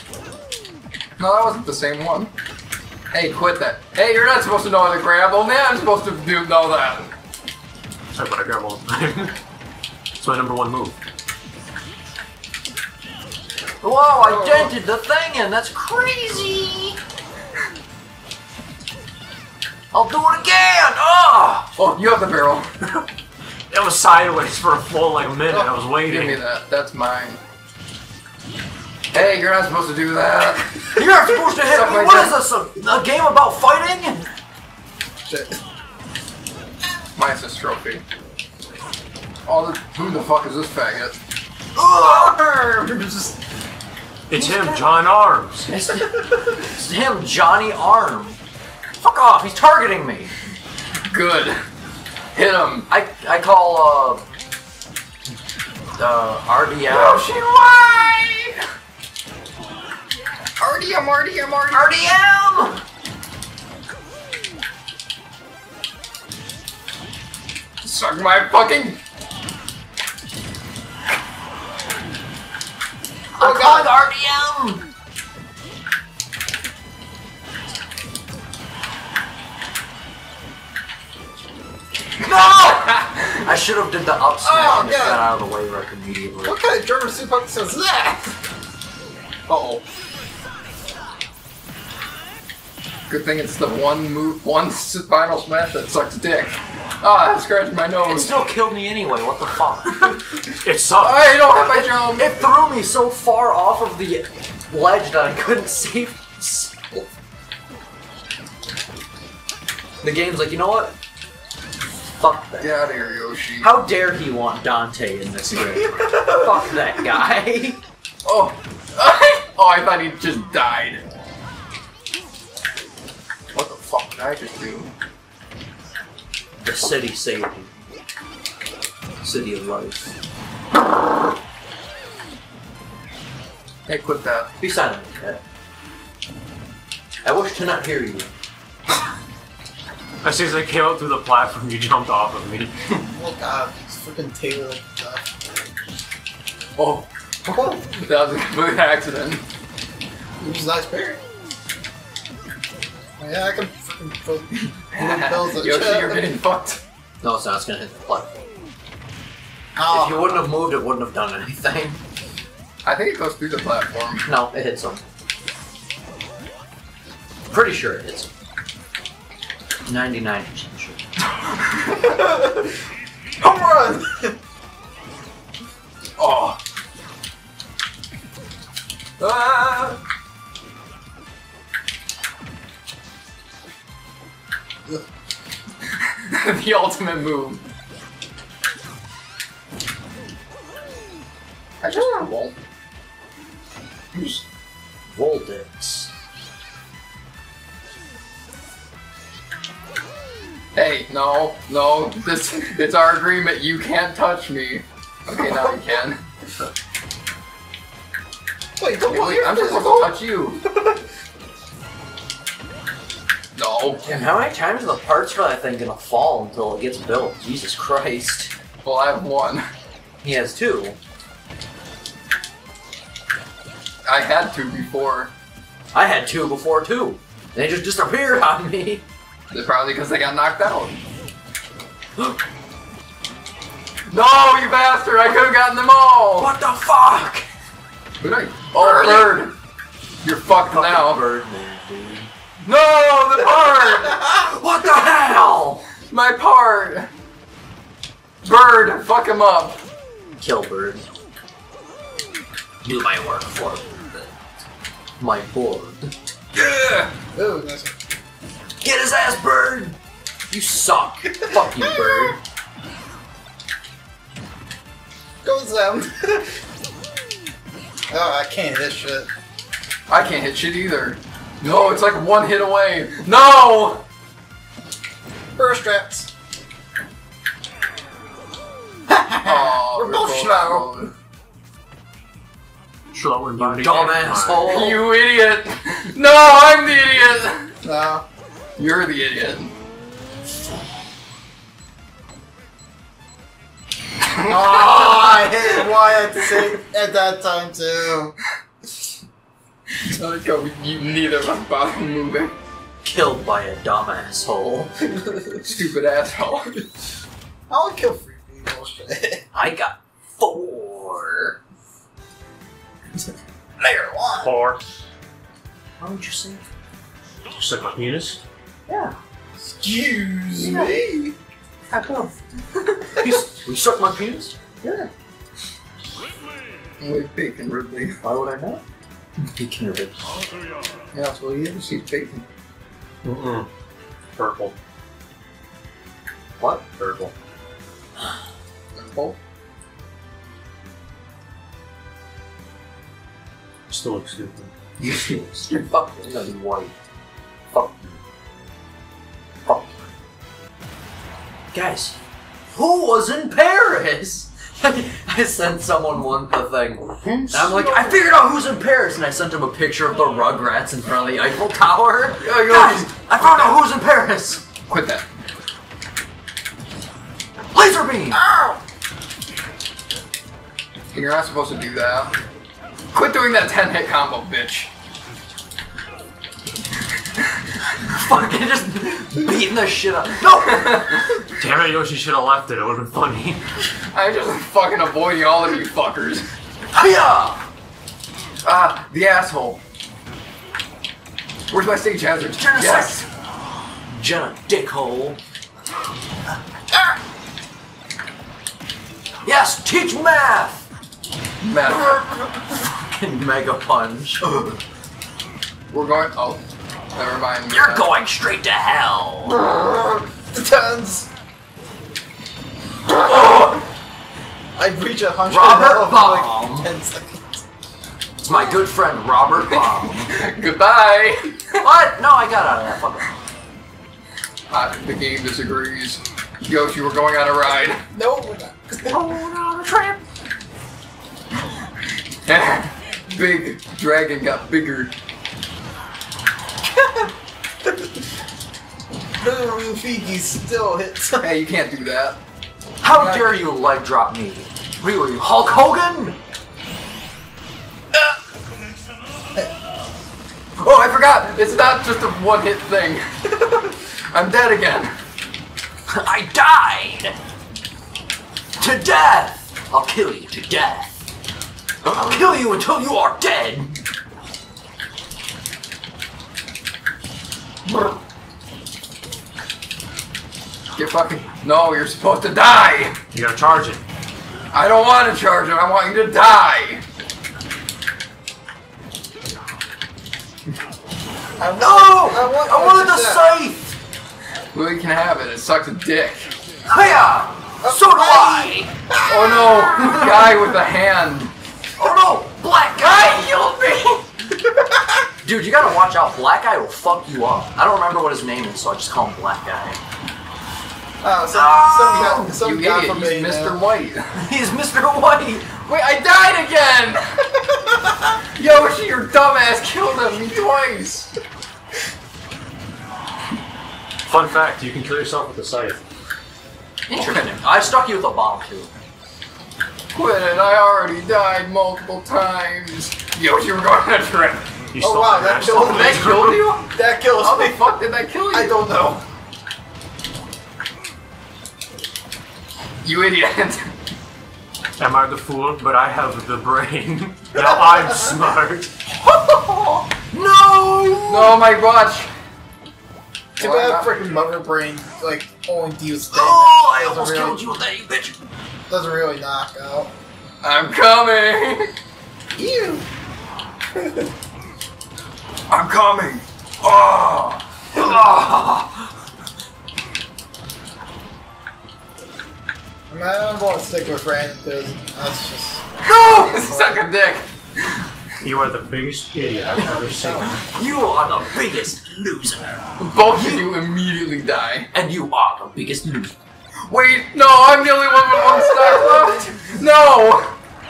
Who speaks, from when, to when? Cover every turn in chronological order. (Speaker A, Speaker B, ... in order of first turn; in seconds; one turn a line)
Speaker A: 1.2-2.3
Speaker A: 3.1-7.1
Speaker B: 8.2-9.4
Speaker B: 10.2-11.0
Speaker C: 13.8-17.0
Speaker A: 14.2-14.7
Speaker C: 19.9-21.7
Speaker A: 21.8-23.1
Speaker B: 23.7-26.4
Speaker A: 26.1-27.4
Speaker A: 29.1-32.4
Speaker C: 31.0-34.3
Speaker D: 35.2-35.6
Speaker A: 37.2-38.0
Speaker A: 39.5-41.1
Speaker C: 41.8-42.4
Speaker D: 42.0-43.4
Speaker B: 44.3-45.7
Speaker C: 44.3-44.9
Speaker C: 45.7-48.4
Speaker D: 46.0-46.6
Speaker C: 49.0-50.3
Speaker A: 51.1-51.6
Speaker A: 52.3-52.9
Speaker C: 52.9-54.2
Speaker C: 56.0-57.3
Speaker A: 56.9-58.6
Speaker A: 60.6-62.0
Speaker C: 61.7-62.8
Speaker A: 67.8-69.0
Speaker C: 73.4-74.9
Speaker D: 73.4-74.0
Speaker C: 82.2-86.6
Speaker A: 82.6-83.4
Speaker D: 84.4-85.3
Speaker D: 86.5-88.4
Speaker A: 89.5-89.8
Speaker A: 93.1-98.4
Speaker C: 98.0-100.2
Speaker B: 100.6-101.4
Speaker A: 101.0-102.4
Speaker C: 101.5-107.0
Speaker C: 110.0-111.0
Speaker C: 112.1-112.8
Speaker A: 112.6-113.7
Speaker C: 113.6-117.8
Speaker D: 115.7-116.9
Speaker A: 118.2-121.0
Speaker A: 123.5-124.9
Speaker C: 126.6-127.7
Speaker C: 129.2-130.1
Speaker A: 133.9-134.5
Speaker C: 134.6-135.4
Speaker C: 137.2-138.3
Speaker B: 140.2-142.7
Speaker D: 143.1-145.4
Speaker A: 146.8-149.4
Speaker D: 147.5-147.8
Speaker D: 150.4-151.2
Speaker D: 153.2-156.4
Speaker A: 154.9-156.8
Speaker C: 157.2-158.5
Speaker D: 159.8-160.5
Speaker C: 159.9-162.0
Speaker A: 162.8-164.3
Speaker C: 164.3-165.1
Speaker C: 167.5-168.3
Speaker C: 169.9-171.0
Speaker A: 171.4-172.1
Speaker D: 172.0-172.8
Speaker D: 173.4-174.4
Speaker A: 176.2-176.6
Speaker A: 179.2-180.0
Speaker A: 186.0-187.6
Speaker A: 191.8-192.6
Speaker A: 194.1-194.4
Speaker C: 195.1-196.1
Speaker A: 200.7-206.2
Speaker D: 208.8-211.0
Speaker A: 209.1-210.6
Speaker A: 213.6-214.1
Speaker C: 214.0-218.5
Speaker A: 218.8-219.7
Speaker C: 220.2-221.0
Speaker A: 224.1-225.3
Speaker C: 225.9-229.1
Speaker A: 229.5-231.0
Speaker A: 234.1-236.5
Speaker C: 236.4-237.5
Speaker A: 238.2-239.6
Speaker C: 238.8-239.4
Speaker A: 240.2-241.2
Speaker C: 240.7-242.3
Speaker A: 242.7-245.0
Speaker C: 244.3-245.8
Speaker A: 246.0-247.1
Speaker A: 248.4-249.8
Speaker C: 250.4-251.1
Speaker C: 252.8-254.3
Speaker C: 255.2-256.1
Speaker A: 256.5-257.1
Speaker D: 257.3-258.0
Speaker C: 258.8-260.0
Speaker C: 260.5-262.4
Speaker D: 261.4-262.4
Speaker D: 265.4-266.6
Speaker D: 268.1-269.3
Speaker A: 270.1-274.0
Speaker D: 275.6-276.3
Speaker D: 279.1-281.1
Speaker A: 279.4-281.1
Speaker B: 283.1-284.7
Speaker C: 283.6-285.0
Speaker A: 284.7-287.7
Speaker D: 287.8-288.3
Speaker A: 288.8-289.7
Speaker A: 294.3-295.9
Speaker D: 294.5-298.4
Speaker A: 300.0-302.5
Speaker C: 303.0-305.0
Speaker A: 305.4-306.8
Speaker D: 307.7-309.4
Speaker C: 309.5-311.6
Speaker D: 313.8-314.5
Speaker B: 314.4-314.9
Speaker C: 316.0-316.7
Speaker B: 317.6-318.4
Speaker C: 318.9-319.2
Speaker D: 319.6-321.4
Speaker C: 320.6-320.9
Speaker A: 320.7-320.9
Speaker C: 321.9-322.3
Speaker C: 323.2-324.6
Speaker A: 324.8-325.1
Speaker A: 327.0-328.2
Speaker C: 328.2-328.8
Speaker C: 329.6-330.4
Speaker A: 331.1-332.5
Speaker B: 333.2-333.7
Speaker B: 334.4-334.8
Speaker C: 336.6-336.8
Speaker B: 337.0-337.3
Speaker A: 338.9-339.4
Speaker B: 343.9-344.7
Speaker A: 345.0-345.4
Speaker C: 345.3-346.9
Speaker C: 347.7-348.2
Speaker C: 349.7-350.0
Speaker C: 351.7-352.2
Speaker C: 352.7-364.6
Speaker A: 357.2-358.2
Speaker A: 362.4-363.8
Speaker A: 364.9-365.3
Speaker C: 367.7-368.4
Speaker D: 368.3-368.8
Speaker A: 371.1-372.4
Speaker A: 373.1-374.9
Speaker C: 378.0-381.1
Speaker A: 380.6-381.4
Speaker B: 381.5-383.7
Speaker A: 384.1-386.5
Speaker C: 386.9-387.6
Speaker A: 388.6-389.8
Speaker A: 391.7-393.3
Speaker C: 392.6-393.2
Speaker C: 394.1-395.4
Speaker C: 399.4-400.9
Speaker A: 401.6-402.6
Speaker C: 402.8-404.7
Speaker A: 405.9-406.6
Speaker A: 407.1-408.1
Speaker C: 407.7-409.6
Speaker D: 409.6-411.3
Speaker A: 413.1-413.9
Speaker D: 414.8-417.6
Speaker C: 415.5-416.9
Speaker C: 418.4-420.3
Speaker A: 419.7-421.9
Speaker C: 421.8-423.4
Speaker A: 424.7-428.0
Speaker D: 428.1-429.3
Speaker A: 429.1-430.2
Speaker A: 432.4-435.1
Speaker D: 436.9-437.3
Speaker D: 439.4-441.5
Speaker A: 441.4-442.4
Speaker C: 443.0-446.4
Speaker A: 450.8-455.1
Speaker C: 456.1-457.4
Speaker C: 458.8-461.1
Speaker C: 462.1-464.0
Speaker A: 467.9-468.2
Speaker A: 470.9-473.2
Speaker B: 473.3-474.0
Speaker A: 474.7-477.0
Speaker D: 481.6-483.5
Speaker C: 481.8-483.9
Speaker A: 484.7-486.5
Speaker C: 486.9-488.9
Speaker D: 487.8-490.3
Speaker A: 489.3-491.5
Speaker C: 492.0-493.5
Speaker A: 493.0-494.3
Speaker D: 494.7-495.2
Speaker C: 495.4-500.0
Speaker D: 501.2-503.8
Speaker C: 501.5-502.5
Speaker A: 502.1-504.3
Speaker C: 504.3-505.8
Speaker A: 505.9-507.2
Speaker D: 507.8-508.3
Speaker A: 508.6-511.3
Speaker B: 514.3-516.0
Speaker C: 517.1-518.9
Speaker A: 517.2-517.4
Speaker A: 520.1-524.7
Speaker B: 524.9-526.6
Speaker D: 525.0-528.0
Speaker A: 525.7-528.8
Speaker D: 528.5-529.2
Speaker A: 533.0-533.9
Speaker B: 535.0-538.9
Speaker D: 537.5-538.4
Speaker C: 539.6-541.6
Speaker A: 541.3-542.3
Speaker A: 543.6-544.1
Speaker D: 543.6-547.6
Speaker C: 546.3-548.4
Speaker D: 548.9-550.1
Speaker A: 550.6-551.9
Speaker D: 552.5-553.1
Speaker D: 554.0-554.2
Speaker A: 555.7-559.1
Speaker D: 563.1-567.0
Speaker A: 566.0-568.0
Speaker B: 568.4-570.6
Speaker D: 569.4-570.6
Speaker C: 570.5-573.7
Speaker A: 573.0-574.9
Speaker C: 574.9-576.3
Speaker A: 576.9-580.6
Speaker D: 578.3-579.4